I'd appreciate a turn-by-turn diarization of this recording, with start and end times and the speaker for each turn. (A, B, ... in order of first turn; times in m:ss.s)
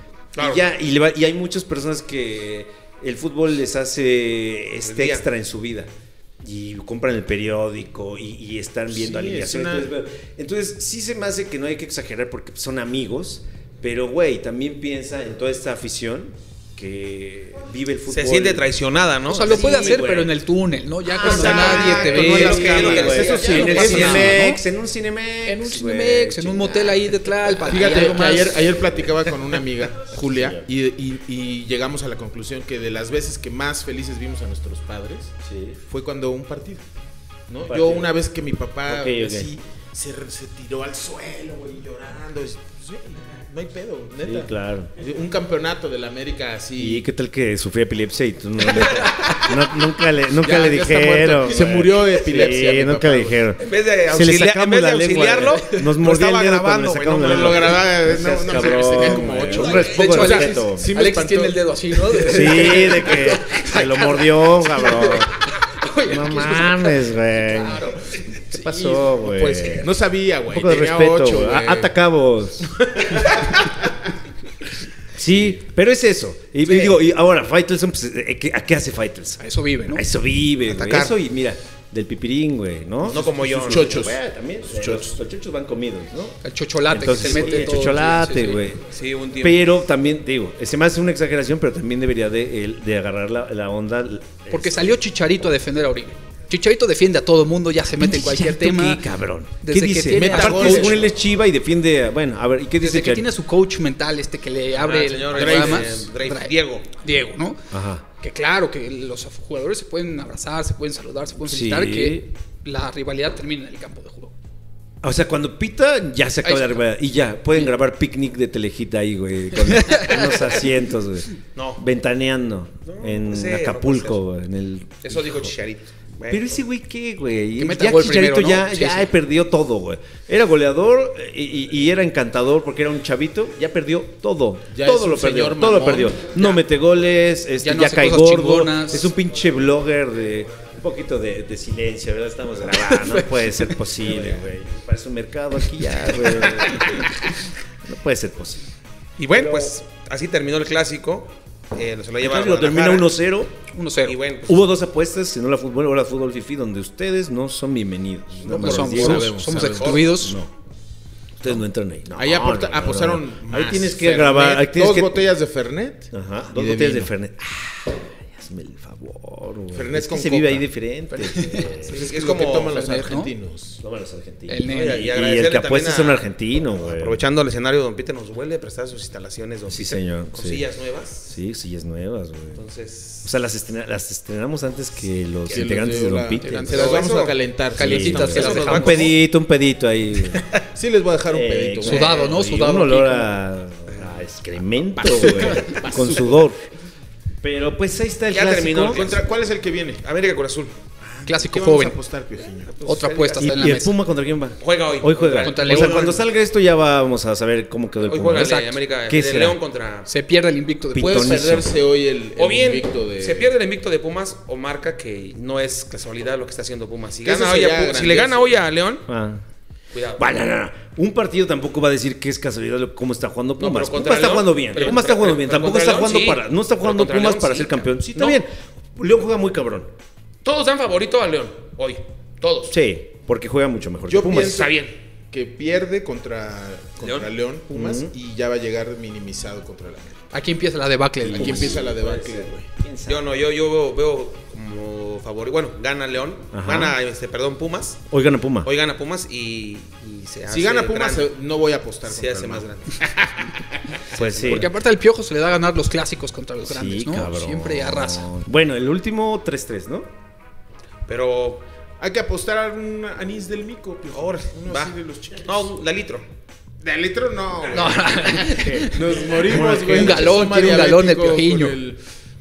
0:00.4-0:00.6 A
0:00.4-0:18.7 B
0:04.8-0:05.3 A
0:08.9-0:09.9 C
0:18.1-0:20.0 A
0:19.3-0:24.6 D
0:19.3-0:20.4 B
0:21.1-0:24.4 C
0:21.2-0:27.1 B
0:21.3-0:24.4 A
0:25.4-0:28.6 D
0:27.7-0:36.8 C
0:30.3-0:30.6 B
0:35.4-0:35.8 B
0:37.5-0:47.1 C
0:37.6-0:38.1 B
0:38.9-0:39.5 B
0:44.2-0:44.9 B
0:46.8-1:00.9 B
0:50.3-0:53.4 C
0:53.6-0:57.8 A
0:57.2-1:03.0 C
0:59.5-0:59.8 A
0:59.5-1:09.4 D
1:02.2-1:05.3 B
1:06.0-1:10.0 B
1:09.4-1:11.9 C
1:10.5-1:12.7 B
1:12.6-1:13.9 C
1:15.1-1:35.0 B
1:19.4-1:20.0 D
1:20.7-1:21.2 A
1:23.0-1:24.1 A
1:23.5-1:25.2 C
1:26.4-1:28.6 D
1:28.9-1:29.6 A
1:34.5-1:39.0 D
1:38.0-1:43.3 B
1:39.6-1:41.0 D
1:40.1-1:41.1 C
1:42.8-1:47.6 D
1:44.8-1:46.9 A
1:45.3-1:46.1 C
1:47.7-1:48.0 B
1:48.2-1:54.3 D
1:51.5-1:52.3 B
1:55.0-2:05.5 B
1:56.4-1:56.8 D
1:59.7-2:00.3 D
2:01.6-2:01.8 A
2:02.8-2:04.2 A
2:05.0-2:06.6 A
2:06.3-2:28.6 B
2:07.6-2:09.1 D
2:14.7-2:16.2 C
2:17.6-2:19.1 D
2:22.8-2:23.3 D
2:24.1-2:24.4 A
2:29.2-2:33.2 A
2:29.3-2:29.8 B
2:32.2-2:33.5 B
2:33.7-2:34.2 D
2:34.0-2:34.6 A
2:34.5-2:40.5 B
2:38.4-2:40.1 C
2:38.5-2:40.4 D
2:39.6-2:40.2 A
2:41.4-2:45.3 B
2:42.2-2:47.1 C
2:46.1-2:52.1 B
2:49.7-2:50.7 C
2:51.1-2:53.3 D
2:51.9-2:53.8 C
2:51.9-2:52.8 A
2:53.8-2:57.2 B
2:54.5-2:55.1 D
2:54.7-3:01.2 A
2:59.7-3:00.6 B
3:01.2-3:02.6 B
3:02.6-3:03.3 A
3:03.2-3:07.0 B
3:05.5-3:08.9 C
3:06.4-3:07.1 D
3:06.7-3:07.4 A
3:07.7-3:09.1 D
3:07.8-3:10.4 B
3:08.2-3:09.2 A
3:10.7-3:12.3 C
3:11.3-3:16.7 B
3:11.8-3:13.3 D
3:15.0-3:16.5 C
3:17.4-3:19.1 B
3:18.3-3:19.3 A
3:18.9-3:20.0 C
3:20.0-3:20.7 A
3:21.0-3:22.8 C
3:21.3-3:22.0 D
3:22.7-3:23.6 A
3:22.8-3:24.0 D
3:23.3-3:29.6 B
3:24.6-3:26.2 A
3:25.3-3:26.2 D
3:28.0-3:30.1 A
3:28.4-3:28.8 D
3:30.1-3:31.5 D
3:30.9-3:31.7 B
3:31.0-3:33.5 C
3:32.4-3:39.1 A
3:37.2-3:38.6 C
3:39.1-3:39.4 B
3:39.9-3:40.3 A
3:40.2-3:49.9 B
3:43.6-3:48.4 A
3:50.4-3:52.8 A
3:52.7-3:54.7 B
3:54.1-3:54.8 C
3:54.4-3:55.0 A
3:55.3-4:00.3 C
3:57.0-3:57.3 A
3:57.7-3:58.1 B
4:00.3-4:01.8 D
4:01.2-4:03.3 B
4:01.3-4:02.7 C
4:03.1-4:08.1 A
4:06.5-4:07.0 B
4:08.1-4:08.7 B
4:08.6-4:11.3 A
4:10.5-4:13.2 C
4:12.1-4:13.2 A
4:14.1-4:14.7 A
4:14.1-4:14.7 B
4:14.5-4:18.3 D
4:16.6-4:20.1 B
4:21.1-4:21.6 A
4:22.0-4:25.8 C
4:24.1-4:26.2 A
4:26.8-4:32.0 C
4:27.7-4:31.8 D
4:28.5-4:30.5 B